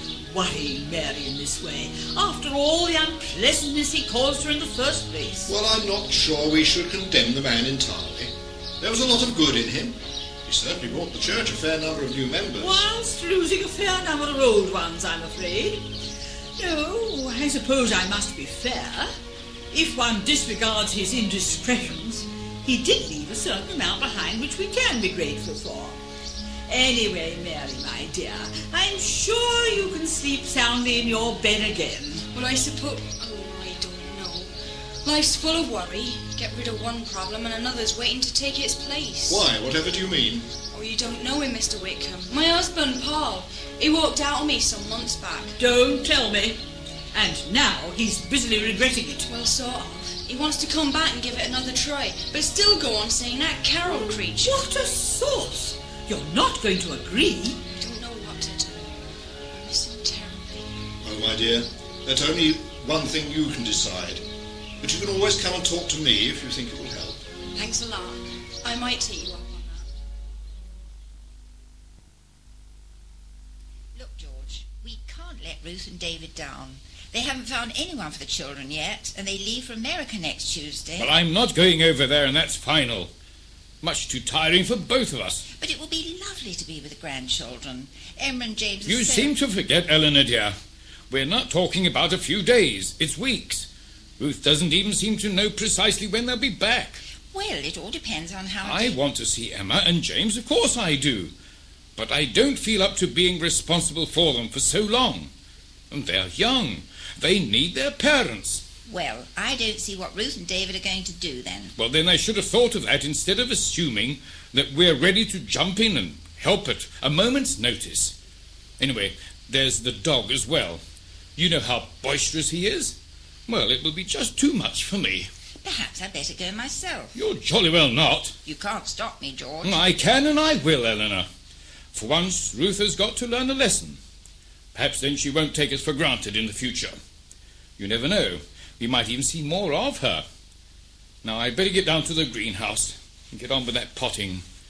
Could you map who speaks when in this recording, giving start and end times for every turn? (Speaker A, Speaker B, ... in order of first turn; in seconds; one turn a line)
Speaker A: 0.3-5.5
Speaker B: 5.5-12.8
Speaker A: 12.6-15.9
Speaker A: 16.6-19.1
Speaker A: 19.7-26.0
Speaker A: 26.7-32.2
Speaker C: 32.3-34.5
Speaker C: 35.0-39.5
Speaker B: 39.3-40.5
Speaker C: 40.7-45.6
Speaker A: 45.6-46.6
Speaker A: 47.1-49.2
Speaker C: 49.2-54.7
Speaker A: 54.5-57.6
Speaker C: 57.7-59.0
Speaker C: 59.5-60.7
Speaker B: 61.0-64.2
Speaker B: 64.8-67.2
Speaker C: 67.5-69.8
Speaker D: 73.9-81.1
Speaker E: 81.0-83.1
Speaker E: 83.8-85.4
Speaker D: 85.6-89.3
Speaker E: 88.8-90.5
Speaker E: 91.1-93.7
Speaker E: 94.2-97.0
Speaker D: 97.3-99.0
Speaker E: 98.6-101.3
Speaker E: 102.0-105.3
Speaker E: 105.9-108.6
Speaker D: 108.9-111.7
Speaker E: 111.8-118.1
Speaker E: 118.8-120.8
Speaker E: 121.4-123.0
Speaker E: 123.5-125.3
Speaker D: 125.6-127.2
Speaker E: 127.1-128.3
Speaker D: 128.4-129.8
Speaker E: 129.6-131.3
Speaker E: 131.9-134.0
Speaker E: 134.8-137.0
Speaker E: 137.8-140.2
Speaker E: 141.2-144.4